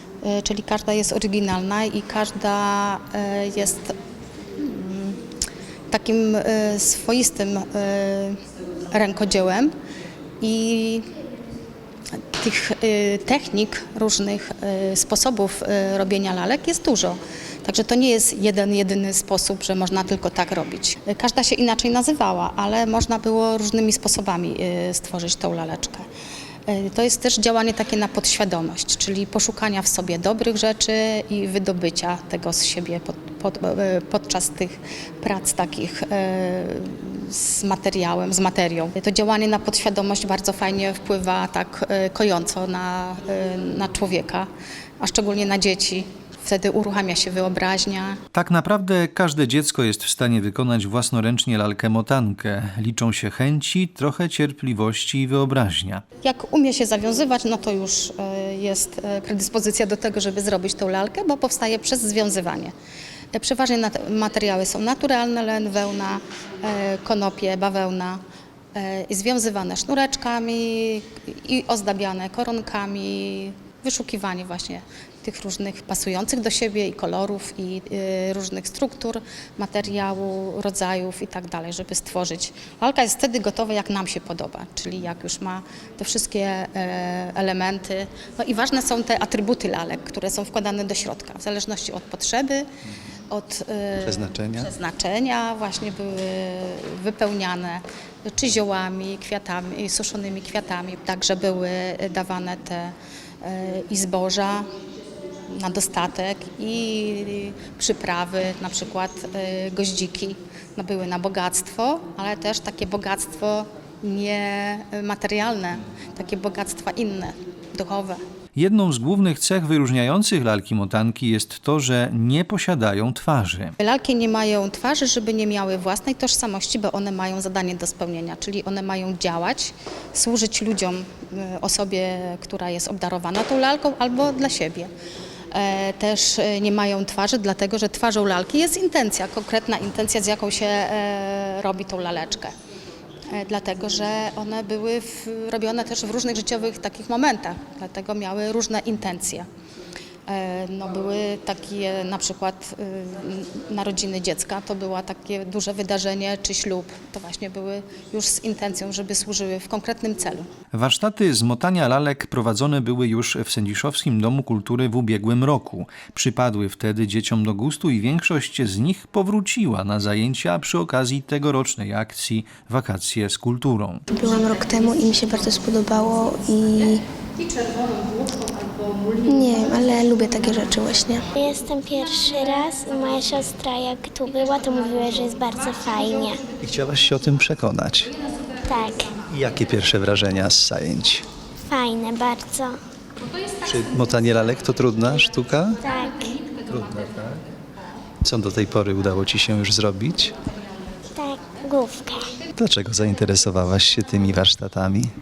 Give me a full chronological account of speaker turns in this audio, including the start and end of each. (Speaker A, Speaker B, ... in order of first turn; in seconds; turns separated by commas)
Speaker A: 0.2-3.9, Speaker A: 4.6-5.2, Speaker A: 5.9-8.4, Speaker A: 8.9-9.7, Speaker A: 10.4-11.0, Speaker A: 12.3-26.1, Speaker A: 26.7-44.5, Speaker A: 45.0-48.2, Speaker B: 48.3-56.0, Speaker A: 56.2-62.7, Speaker A: 63.3-68.2, Speaker A: 68.7-92.6, Speaker A: 93.3-104.7, Speaker C: 94.0-94.7, Speaker A: 105.5-118.2, Speaker B: 118.5-123.8, Speaker A: 123.8-134.9, Speaker A: 135.5-142.5, Speaker A: 143.3-149.4, Speaker A: 150.3-160.5, Speaker B: 160.7-174.0, Speaker D: 174.1-177.0, Speaker A: 177.4-178.8, Speaker D: 179.2-181.3, Speaker E: 181.3-186.4, Speaker C: 186.6-188.1, Speaker E: 188.6-189.2, Speaker C: 189.3-191.2, Speaker E: 191.6-192.8, Speaker C: 193.7-195.8, Speaker B: 194.3-194.8, Speaker E: 195.8-196.4, Speaker B: 196.7-197.4, Speaker C: 198.3-200.3, Speaker E: 201.1-202.3, Speaker C: 202.6-205.1, Speaker B: 203.9-204.6